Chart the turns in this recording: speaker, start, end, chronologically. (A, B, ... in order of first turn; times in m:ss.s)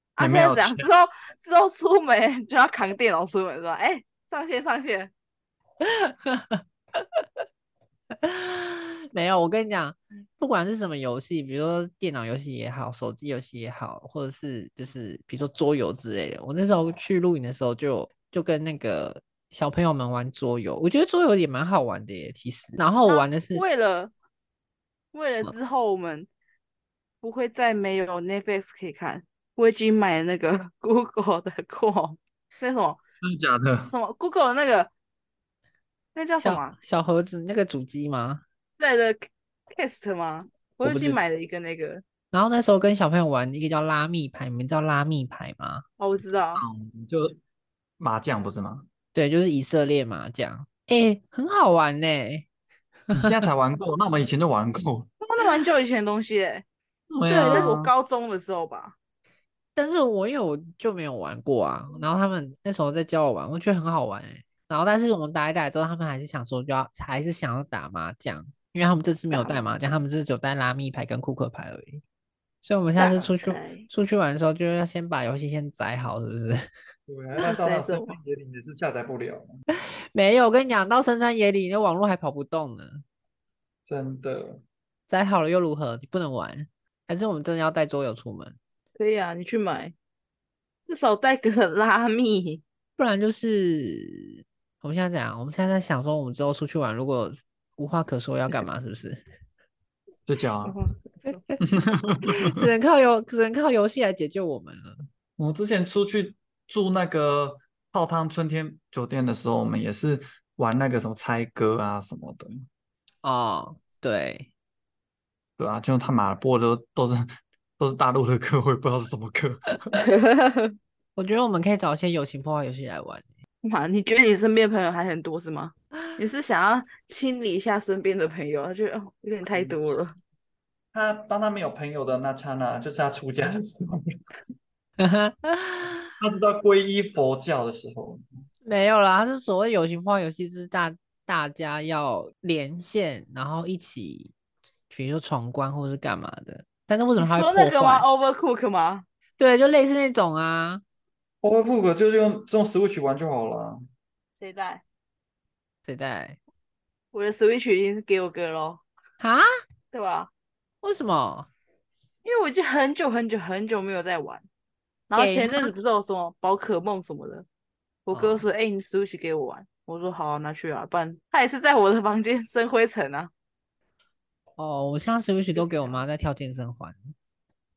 0:00.2-0:05.1 A
0:00.2-0:00.9 B
0:05.8-0:06.6 C
0:08.2-0:23.6 C
0:23.1-0:24.1 A
0:25.1-0:26.3 A
0:27.2-0:33.0 A
0:33.2-0:33.9 B
0:33.9-0:34.9 A
0:36.2-0:36.8 A
0:36.4-0:38.4 C
0:38.8-0:42.0 A
0:40.8-0:41.2 C
0:42.3-0:45.8 C
0:46.0-0:46.6 A
0:46.6-0:47.4 B
0:48.0-0:48.9 B
0:49.1-0:52.5 C
0:53.1-0:55.1 B
0:55.2-0:56.6 A
0:57.1-0:57.9 B
0:57.3-0:59.0 A
0:57.3-0:57.7 C
0:59.8-1:12.0 C
1:09.3-1:09.6 A
1:12.6-1:16.6 C
1:13.0-1:13.9 A
1:17.1-1:19.6 B
1:17.4-1:18.2 A
1:20.1-1:23.0 C
1:23.8-1:24.6 B
1:25.1-1:28.6 C
1:29.0-1:30.0 A
1:30.9-1:32.6 A
1:33.0-1:39.2 C
1:40.3-1:40.8 B
1:40.6-1:41.4 A
1:41.6-1:42.6 B
1:42.3-1:45.1 C
1:45.4-1:52.6 B
1:53.2-1:54.5 C
1:55.6-2:00.0 B
1:59.9-2:00.8 A
2:01.2-2:03.3 C
2:03.6-2:10.1 A
2:09.5-2:09.9 B
2:10.9-2:14.2 B
2:15.0-2:16.1 C
2:16.2-2:18.2 B
2:18.6-2:24.3 C
2:24.9-2:28.1 C
2:27.2-2:29.1 A
2:29.4-2:30.8 C
2:31.4-2:33.8 B
2:34.4-2:34.8 A
2:35.8-2:36.4 C
2:37.1-2:38.8 A
2:39.2-2:39.5 C
2:39.9-2:40.3 A
2:40.8-2:41.5 C
2:42.2-2:44.4 A
2:45.1-2:47.5 A
2:45.2-2:45.7 C
2:48.1-2:53.3 A
2:48.1-2:48.5 C
2:54.6-2:57.1 C
2:55.6-2:56.0 A